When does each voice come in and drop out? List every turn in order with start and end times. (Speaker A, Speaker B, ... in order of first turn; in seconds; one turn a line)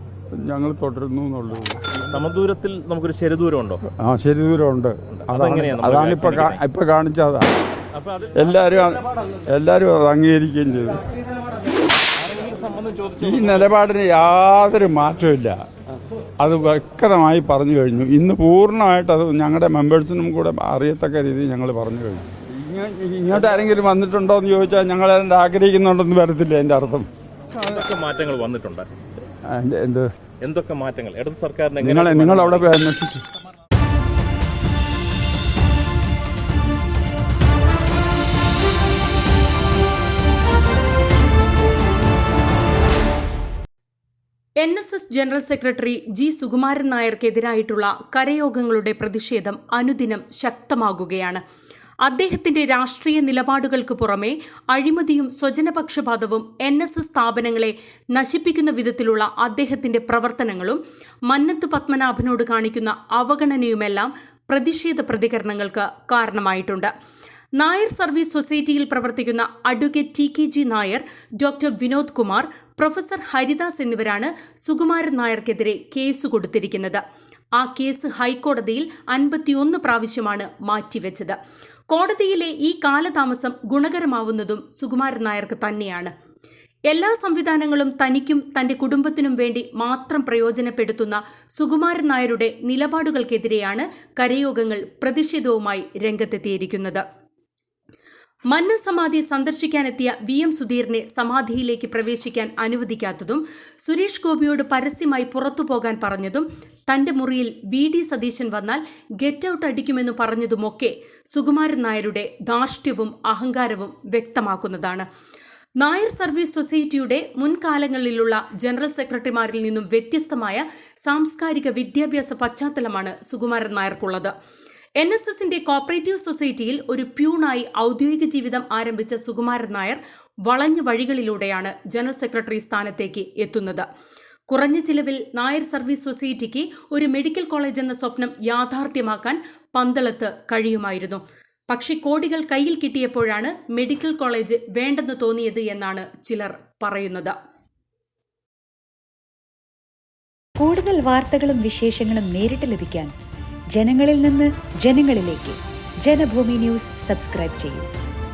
Speaker A: 0.4-1.9
Speaker B: 1.9-3.8
Speaker A: 4.0-7.5
Speaker B: 5.2-6.6
Speaker B: 8.0-8.5
Speaker A: 8.4-9.0
Speaker A: 9.5-11.0
Speaker B: 12.3-13.4
Speaker A: 13.2-15.6
Speaker A: 16.4-27.1
Speaker B: 27.6-28.9
Speaker A: 29.5-30.1
Speaker B: 30.4-32.8
Speaker A: 31.8-33.2
Speaker C: 44.6-51.4
Speaker C: 52.0-66.9
Speaker C: 67.6-77.0
Speaker C: 77.6-81.4
Speaker C: 81.9-86.1
Speaker C: 86.9-97.0
Speaker C: 98.5-115.0
Speaker C: 115.8-124.3
Speaker C: 125.0-133.8
Speaker C: 134.5-147.3
Speaker D: 150.6-153.1
Speaker D: 153.8-157.9